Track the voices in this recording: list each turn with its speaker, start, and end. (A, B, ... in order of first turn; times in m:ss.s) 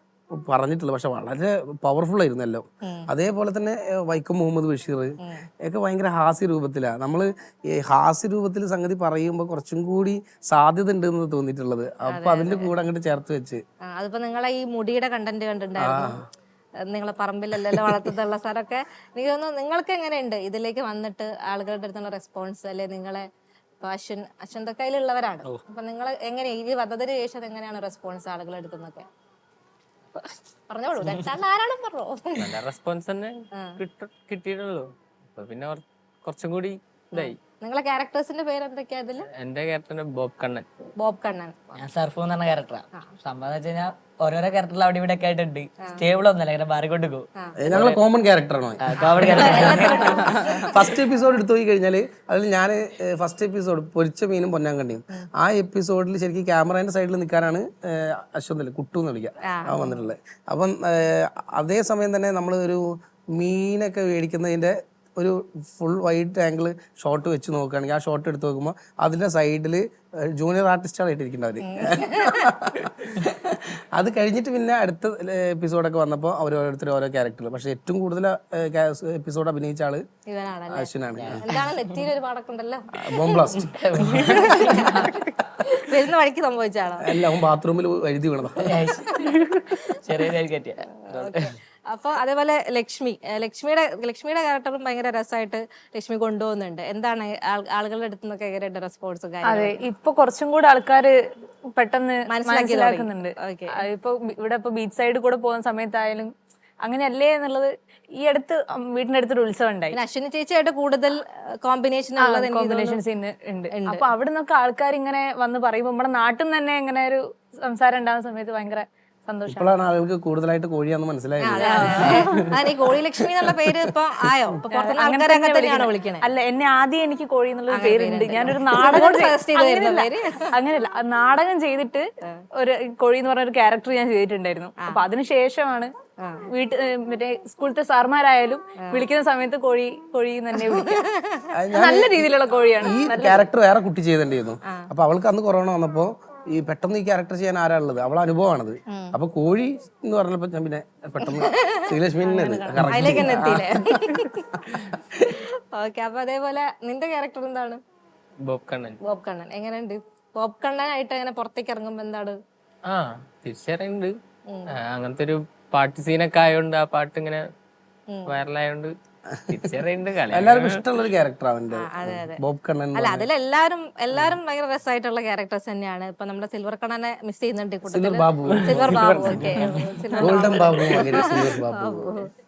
0:00.3-0:13.6 A
0:02.8-0:03.1 B
0:12.1-0:12.7 B
0:13.9-0:16.2 B
0:15.8-0:16.3 A
0:16.9-0:23.2 B
0:17.6-0:18.1 A
0:23.8-0:29.1 B
0:30.7-0:32.5 B
0:32.4-0:37.4 C
0:37.1-0:39.3 B
0:39.3-0:40.6 C
0:41.0-0:41.7 B
0:41.8-0:48.0 D
0:47.6-1:20.0 A
0:48.8-0:50.8 D
0:49.3-0:50.7 B
0:59.5-1:00.0 B
1:11.6-1:12.5 B
1:20.3-1:20.9 B
1:20.7-1:21.4 A
1:21.2-1:21.7 D
1:21.4-1:23.5 B
1:23.0-1:23.7 A
1:23.5-1:25.2 D
1:24.1-1:27.1 B
1:27.0-1:28.7 A
1:28.6-1:31.5 D
1:28.9-1:29.4 B
1:31.0-1:39.8 B
1:39.4-1:41.2 E
1:41.7-1:46.3 E
1:42.3-1:43.8 B
1:46.8-1:50.0 E
1:49.9-1:53.0 B
1:52.2-1:59.8 E
1:53.7-1:54.1 B
1:59.5-2:02.8 A
2:01.4-2:06.2 B
2:01.6-2:02.4 E
2:03.4-2:03.7 A
2:04.7-2:15.9 E
2:07.7-2:10.5 B
2:16.2-2:16.5 B
2:16.5-2:21.1 E
2:18.8-2:19.0 B
2:20.6-2:21.5 B
2:21.5-2:22.3 A
2:21.7-2:23.5 E
2:22.8-2:35.4 A
2:28.9-2:29.1 B
2:31.2-2:34.8 B
2:35.7-2:37.8 B
2:38.4-2:39.0 C
2:39.0-2:42.4 B
2:42.9-2:44.1 C
2:44.9-2:47.4 C
2:48.1-2:48.4 B
2:48.3-2:48.9 C
2:49.4-2:49.7 A
2:49.5-2:50.8 C
2:50.3-2:53.3 A
2:51.8-2:52.4 B
2:53.0-3:02.3 B
2:57.9-2:59.6 A
2:58.7-3:00.4 C
3:00.2-3:02.2 A